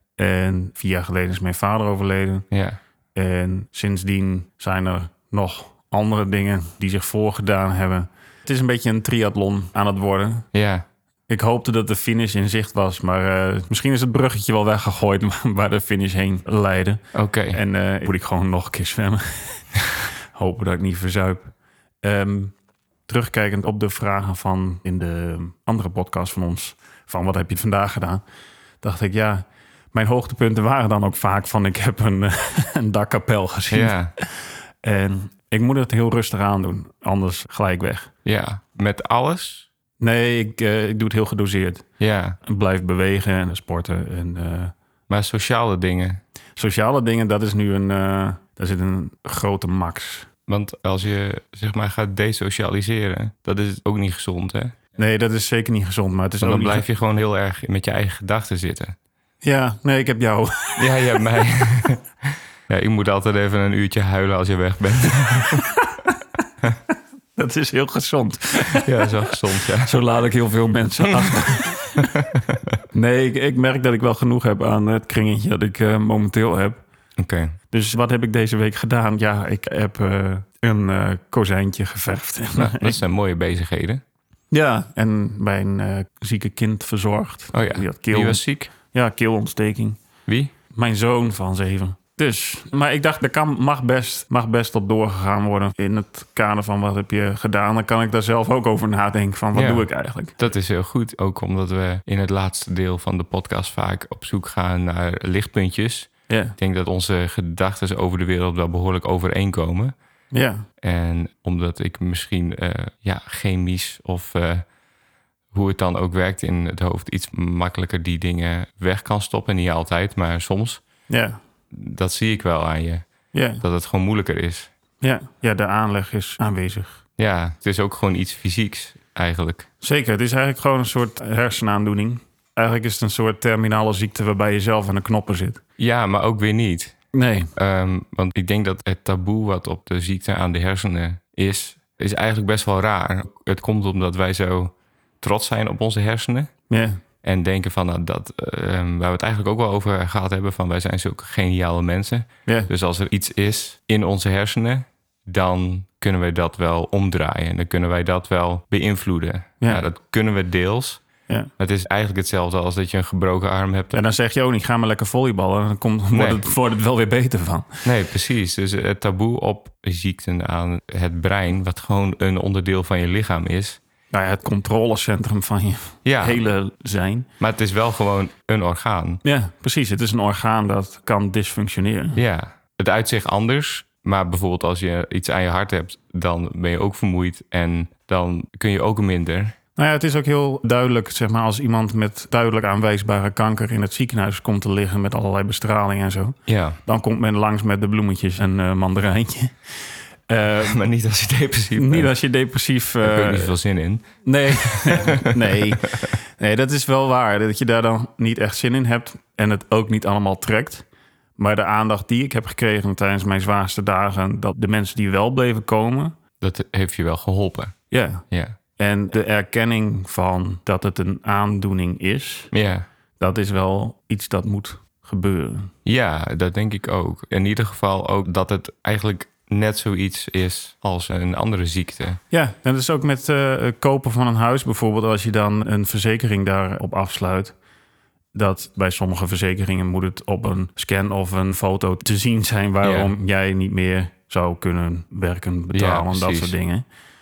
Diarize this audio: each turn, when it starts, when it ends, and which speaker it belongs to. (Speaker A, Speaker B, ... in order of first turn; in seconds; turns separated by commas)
Speaker A: 0.2-2.4, Speaker B: 2.5-2.8, Speaker A: 3.1-10.5, Speaker B: 10.5-10.8, Speaker A: 11.3-19.6, Speaker B: 17.1-17.6, Speaker A: 20.3-22.5, Speaker A: 23.1-28.2, Speaker A: 28.8-38.1, Speaker B: 33.7-34.1, Speaker B: 38.2-39.7, Speaker A: 40.0-41.8, Speaker B: 42.0-42.4, Speaker A: 42.4-44.7, Speaker B: 45.1-46.2, Speaker A: 46.5-50.3, Speaker B: 50.5-54.7, Speaker A: 55.0-56.8, Speaker B: 56.4-58.9, Speaker A: 59.4-60.8, Speaker B: 60.8-62.0, Speaker B: 62.7-65.7, Speaker A: 67.3-69.1, Speaker B: 68.7-70.0, Speaker A: 69.8-72.1, Speaker B: 71.2-71.5, Speaker B: 72.0-72.6, Speaker A: 72.9-76.8, Speaker B: 77.2-77.5, Speaker A: 77.7-83.0, Speaker B: 82.5-84.0, Speaker A: 84.5-90.0, Speaker B: 87.5-88.7, Speaker B: 90.3-90.5, Speaker A: 90.7-100.3, Speaker B: 99.5-109.9, Speaker A: 106.3-106.5, Speaker A: 110.3-110.6, Speaker B: 110.8-114.6, Speaker B: 115.5-120.8, Speaker A: 121.1-121.4, Speaker B: 121.7-123.0, Speaker A: 123.3-123.6, Speaker B: 123.6-124.7, Speaker A: 125.0-127.0, Speaker B: 127.2-129.7, Speaker A: 129.8-135.6, Speaker B: 135.8-136.9, Speaker A: 137.1-137.5, Speaker B: 137.6-146.5, Speaker A: 146.7-147.0, Speaker B: 147.2-161.0, Speaker B: 161.6-164.0, Speaker A: 163.9-167.8, Speaker B: 166.1-166.4, Speaker B: 167.8-173.8, Speaker A: 174.1-177.3, Speaker B: 176.0-176.4, Speaker B: 177.4-179.2, Speaker A: 179.2-182.2, Speaker B: 182.2-189.5, Speaker A: 189.8-199.5, Speaker B: 196.5-196.8, Speaker A: 200.3-200.7, Speaker B: 200.4-202.1, Speaker A: 201.8-203.5, Speaker B: 203.0-206.0, Speaker A: 204.2-210.8, Speaker A: 211.4-216.1, Speaker B: 216.4-217.7, Speaker A: 217.9-218.2, Speaker B: 218.3-218.6, Speaker A: 218.8-222.5, Speaker B: 222.5-222.8, Speaker A: 223.2-225.7, Speaker B: 225.8-232.2, Speaker A: 232.3-237.5, Speaker A: 238.3-246.8, Speaker B: 242.8-243.1, Speaker B: 245.7-246.6